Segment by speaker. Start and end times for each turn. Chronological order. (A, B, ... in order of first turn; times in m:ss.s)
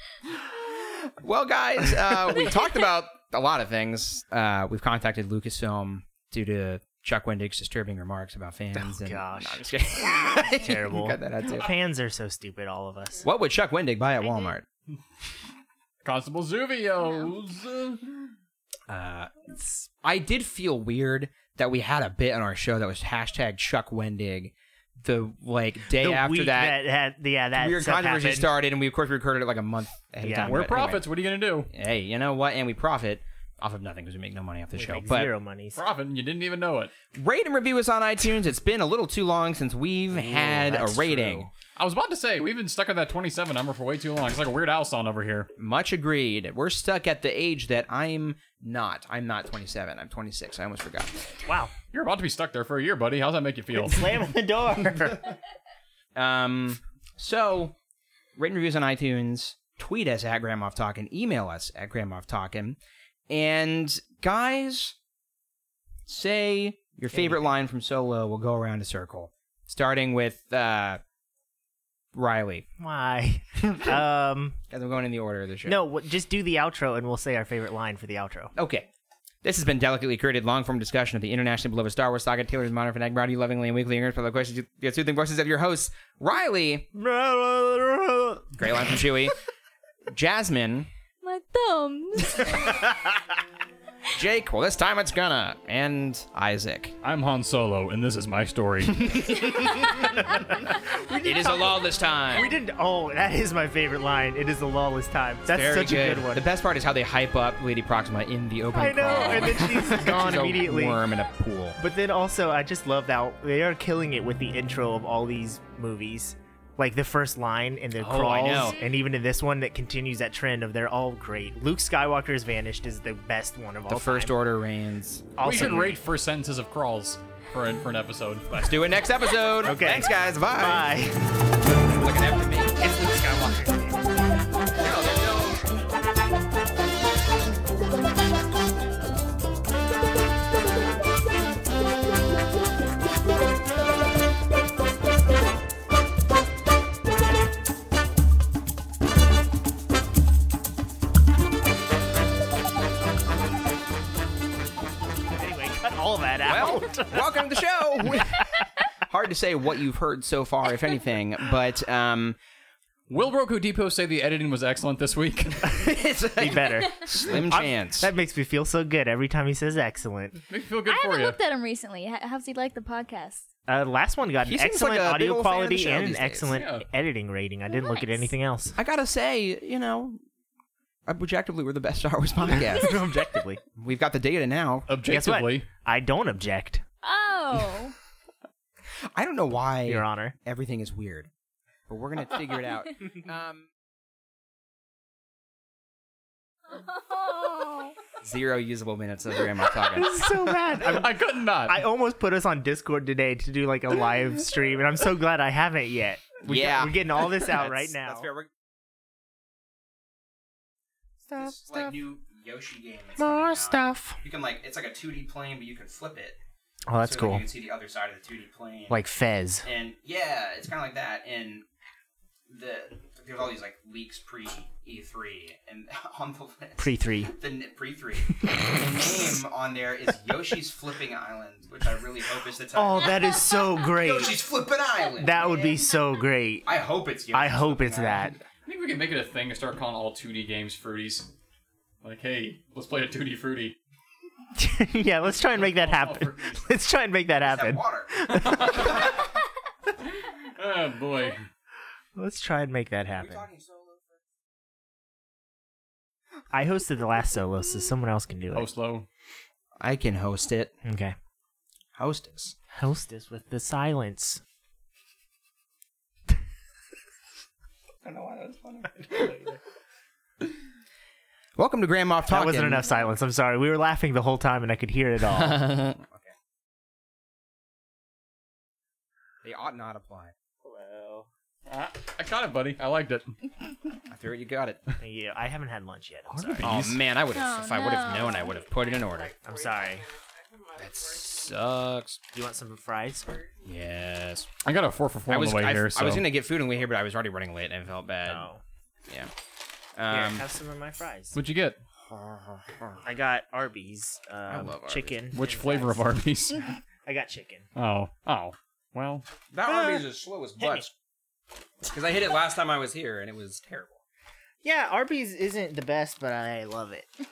0:00.7-0:11.7 A
0:08.7-0:13.2 B
0:13.2-0:14.6 A
0:16.0-0:18.3 C
0:18.9-0:26.8 A
0:25.9-0:28.5 B
0:27.5-0:31.0 A
0:30.2-0:30.5 B
0:30.4-0:31.7 C
0:31.7-0:35.3 A
0:34.7-0:35.8 B
0:35.8-0:36.9 C
0:37.1-0:41.5 A
0:40.1-0:41.5 B
0:41.8-0:45.5 C
0:45.6-0:51.4 A
0:51.4-0:51.7 B
0:51.9-0:54.2 C
0:53.8-0:55.4 B
0:56.1-0:57.7 A
0:58.4-1:02.8 A
1:03.3-1:05.0 A
1:06.0-1:11.0 A
1:12.1-1:12.7 A
1:12.8-1:14.6 B
1:14.7-1:15.8 A
1:15.6-1:18.5 B
1:18.5-1:18.9 A
1:19.4-1:26.9 A
1:26.9-1:28.7 B
1:28.6-1:29.3 A
1:30.1-1:30.9 A
1:31.2-1:32.8 D
1:34.1-1:36.9 A
1:37.0-1:39.4 C
1:39.0-1:40.1 A
1:39.4-1:41.8 B
1:41.2-1:42.5 A
1:42.3-1:46.4 B
1:45.5-1:51.8 A
1:48.7-1:51.0 B
1:51.8-2:04.3 B
1:58.0-1:58.8 A
2:03.9-2:05.3 A
2:05.4-2:06.0 B
2:05.4-2:08.4 C
2:08.5-2:10.9 A
2:09.6-2:11.3 B
2:11.8-2:12.8 A
2:12.8-2:14.1 B
2:14.8-2:15.6 A
2:35.4-2:37.4 B
2:36.4-2:38.4 A
2:38.0-2:38.6 B
2:39.1-2:42.4 A
2:43.1-2:45.8 C
2:45.7-2:48.1 A
2:45.8-2:50.4 B
2:50.5-2:51.4 C
2:50.9-2:53.4 D
2:53.7-2:58.8 B
2:54.4-2:56.6 A
2:56.5-2:56.8 C
2:57.8-2:58.3 D
2:58.8-3:00.2 A
3:01.0-3:04.9 A
3:02.4-3:03.6 B
3:04.9-3:05.6 C
3:05.0-3:06.8 B
3:07.0-3:07.9 D
3:09.1-3:11.3 A
3:09.8-3:10.3 B
3:11.9-3:13.7 A
3:16.7-3:17.9 D
3:18.2-3:20.2 A
3:19.8-3:21.1 B
3:20.7-3:21.8 C
3:21.7-3:28.3 B
3:26.4-3:28.5 A
3:31.3-3:31.9 B
3:31.3-3:36.4 A
3:33.2-3:34.2 B
3:36.9-3:37.4 B
3:37.0-3:39.0 A
3:38.9-3:39.6 B
3:39.6-3:41.6 A
3:42.5-3:55.8 A
3:46.8-3:47.3 B
3:48.3-3:48.7 B
3:52.7-3:54.4 B
3:55.2-3:56.7 B
3:56.6-3:58.3 A
3:57.3-3:58.4 B
3:58.6-4:01.3 C
4:02.0-4:03.8 C
4:04.6-4:08.9 B
4:05.4-4:06.6 C
4:07.4-4:09.2 A
4:08.3-4:09.3 C
4:10.2-4:11.4 C
4:12.2-4:13.5 B
4:13.1-4:14.2 A
4:16.5-4:18.7 B
4:18.5-4:19.1 C
4:19.8-4:20.7 A
4:20.8-4:21.1 B
4:21.9-4:22.6 A
4:22.7-4:24.4 B
4:28.0-4:29.4 A
4:31.6-4:32.9 A
4:32.3-4:35.8 B
4:35.3-4:36.3 A
4:39.4-4:40.3 A
4:40.6-4:41.3 B
4:41.7-4:43.5 C
4:44.1-4:44.8 A
4:45.0-4:46.7 B
4:46.3-4:47.0 C
4:46.6-4:49.4 A
4:47.3-4:48.6 D
4:49.4-4:50.1 B
4:50.7-4:52.2 A
4:52.3-4:53.4 B
4:53.6-4:54.5 A
4:54.6-4:56.2 C
4:55.3-4:58.5 A
4:58.2-4:58.6 B
5:00.0-5:00.4 A
5:00.1-5:01.4 B
5:01.3-5:01.8 C
5:02.1-5:03.0 A
5:03.0-5:06.0 B
5:04.5-5:05.2 A
5:05.3-5:06.8 C
5:07.0-5:07.7 B
5:07.8-5:09.2 C
5:09.5-5:10.9 A
5:09.7-5:10.0 B
5:10.6-5:10.9 B
5:11.8-5:14.0 A
5:14.6-5:17.2 B